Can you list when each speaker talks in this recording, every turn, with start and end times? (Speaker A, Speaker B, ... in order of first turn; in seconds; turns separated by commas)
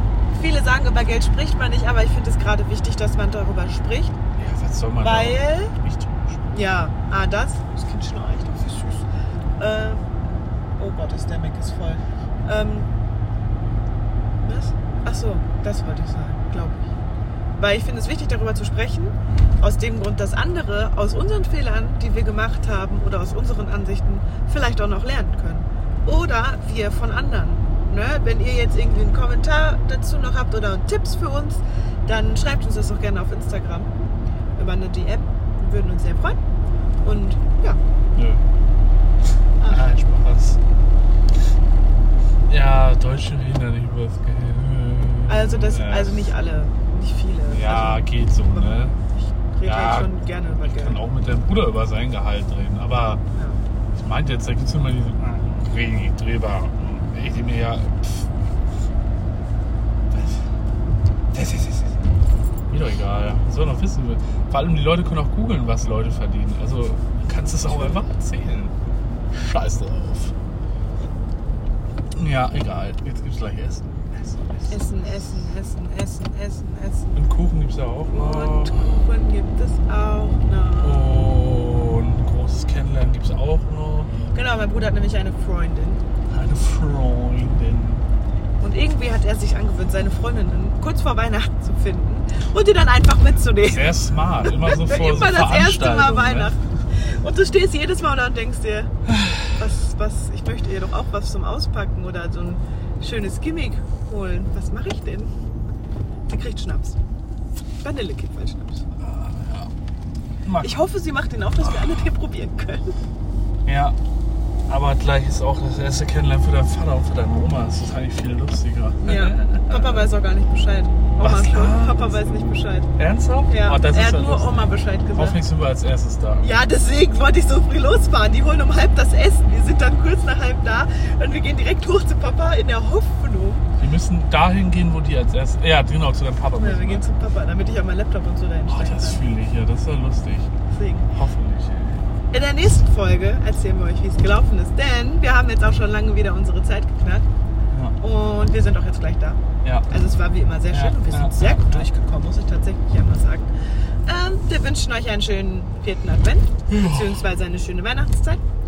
Speaker A: 0.3-4.2, Speaker B: 4.3-6.5, Speaker A: 5.0-5.7, Speaker A: 6.5-9.1, Speaker A: 9.6-10.1, Speaker A: 10.8-12.9, Speaker A: 14.4-16.8, Speaker A: 17.6-33.9, Speaker A: 34.6-36.4, Speaker A: 37.0-37.8, Speaker B: 38.1-38.4, Speaker A: 39.6-39.9, Speaker B: 39.6-40.6, Speaker B: 42.5-46.2, Speaker A: 45.3-51.0, Speaker B: 47.5-49.0, Speaker B: 49.6-53.2, Speaker A: 53.3-53.6, Speaker B: 53.9-58.4, Speaker B: 60.1-60.5, Speaker B: 61.3-61.9, Speaker B: 62.7-68.7, Speaker A: 67.7-68.0, Speaker B: 69.3-70.3, Speaker B: 72.1-75.2, Speaker A: 74.7-77.2, Speaker B: 77.1-78.9, Speaker A: 78.1-81.2, Speaker B: 80.8-84.2, Speaker A: 84.3-86.0, Speaker B: 86.3-88.0, Speaker A: 88.6-98.9, Speaker B: 93.6-96.5, Speaker B: 99.1-99.5, Speaker A: 99.5-105.3, Speaker A: 106.3-107.0, Speaker A: 107.8-108.8, Speaker B: 109.0-109.7, Speaker B: 110.4-110.8, Speaker A: 110.6-113.0, Speaker B: 113.6-114.0, Speaker B: 114.7-120.1, Speaker A: 119.0-122.9, Speaker B: 121.2-126.5, Speaker A: 123.5-125.4, Speaker A: 126.4-133.6, Speaker B: 133.8-137.0, Speaker A: 136.6-139.2, Speaker B: 138.7-140.5, Speaker A: 140.7-141.1, Speaker B: 141.1-142.1, Speaker A: 142.3-147.3, Speaker B: 147.7-147.9, Speaker A: 148.0-153.5, Speaker B: 149.6-149.9, Speaker B: 150.7-151.9, Speaker A: 154.1-158.4, Speaker B: 156.7-157.2